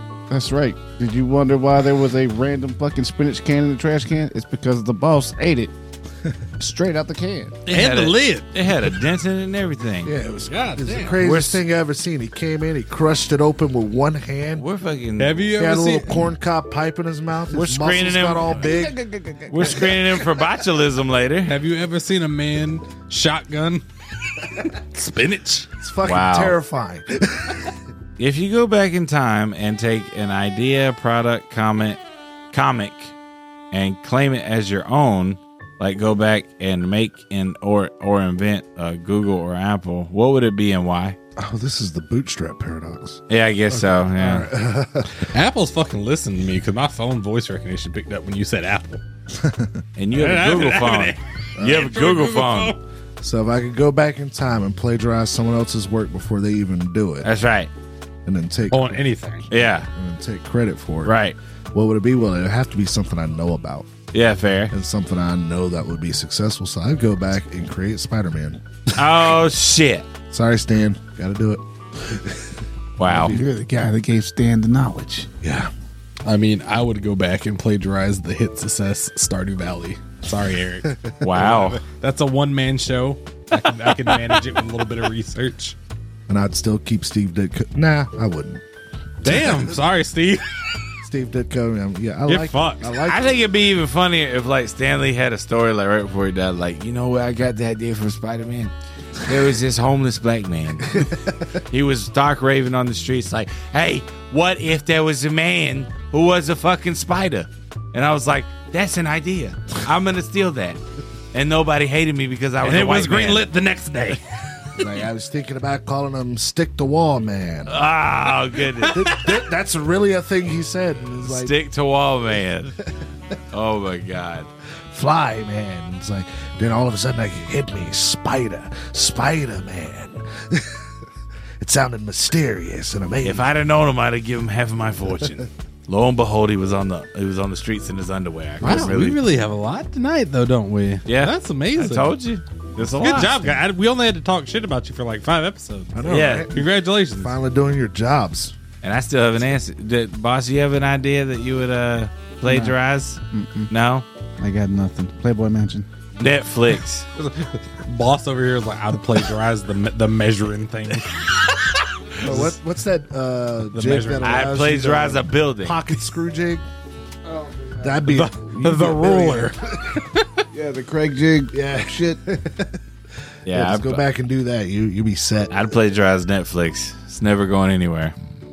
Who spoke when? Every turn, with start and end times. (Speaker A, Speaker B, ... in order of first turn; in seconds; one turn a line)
Speaker A: 0.3-5.7
Speaker A: 6.6-7.6
Speaker B: 7.7-10.1
Speaker C: 7.7-8.5
Speaker D: 10.0-14.6
Speaker C: 10.5-11.2
Speaker B: 11.2-11.6
Speaker B: 14.6-15.5
Speaker C: 15.2-16.3
Speaker D: 15.6-19.0
Speaker B: 17.5-18.6
Speaker A: 18.6-20.0
Speaker B: 19.5-21.5
Speaker C: 21.5-23.9
Speaker C: 24.4-25.7
Speaker D: 25.8-27.7
Speaker B: 26.1-26.6
Speaker B: 28.2-32.0
Speaker B: 32.5-33.1
Speaker B: 33.7-41.2
Speaker D: 41.4-45.3
Speaker B: 43.3-44.5
Speaker C: 45.2-49.0
Speaker D: 49.3-49.8
Speaker B: 50.0-52.8
Speaker C: 50.1-52.8
Speaker D: 51.6-51.9
Speaker D: 53.2-57.3
Speaker B: 57.2-57.7
Speaker D: 58.2-59.0
Speaker C: 58.7-59.5
Speaker B: 59.5-59.9
Speaker D: 59.6-61.1
Speaker B: 61.0-61.4
Speaker D: 61.7-63.9
Speaker B: 64.1-64.7
Speaker D: 64.7-68.6
Speaker B: 68.9-70.1
Speaker D: 70.3-73.5
Speaker B: 73.0-73.4
Speaker A: 73.1-75.3
Speaker D: 75.4-75.7
Speaker C: 76.2-85.8
Speaker B: 81.2-81.8
Speaker D: 86.3-88.6
Speaker D: 89.2-89.8
Speaker C: 89.2-90.9
Speaker D: 91.0-93.4
Speaker C: 92.3-92.9
Speaker B: 93.1-110.8
Speaker D: 100.9-101.4
Speaker B: 111.3-113.5
Speaker C: 112.6-114.7
Speaker D: 114.8-117.8
Speaker B: 117.7-119.1
Speaker C: 118.8-119.3
Speaker D: 118.9-121.5
Speaker B: 121.2-122.8
Speaker B: 123.5-124.5
Speaker D: 124.9-130.9
Speaker D: 131.6-133.5
Speaker B: 133.2-139.2
Speaker C: 138.6-142.1
Speaker B: 141.1-143.5
Speaker C: 142.8-147.4
Speaker D: 145.9-148.6
Speaker B: 146.1-146.5
Speaker B: 148.8-154.1
Speaker A: 152.4-152.8
Speaker A: 153.3-153.7
Speaker A: 154.4-155.9
Speaker B: 156.2-157.1
Speaker C: 157.2-161.2
Speaker C: 162.1-162.6
Speaker D: 162.2-166.6
Speaker C: 163.7-164.5
Speaker B: 164.2-165.8
Speaker A: 167.2-168.1
Speaker D: 167.8-170.1
Speaker C: 168.1-170.4
Speaker A: 170.5-172.2
Speaker D: 171.5-172.8
Speaker B: 173.4-174.0
Speaker D: 173.5-175.7
Speaker B: 175.5-178.1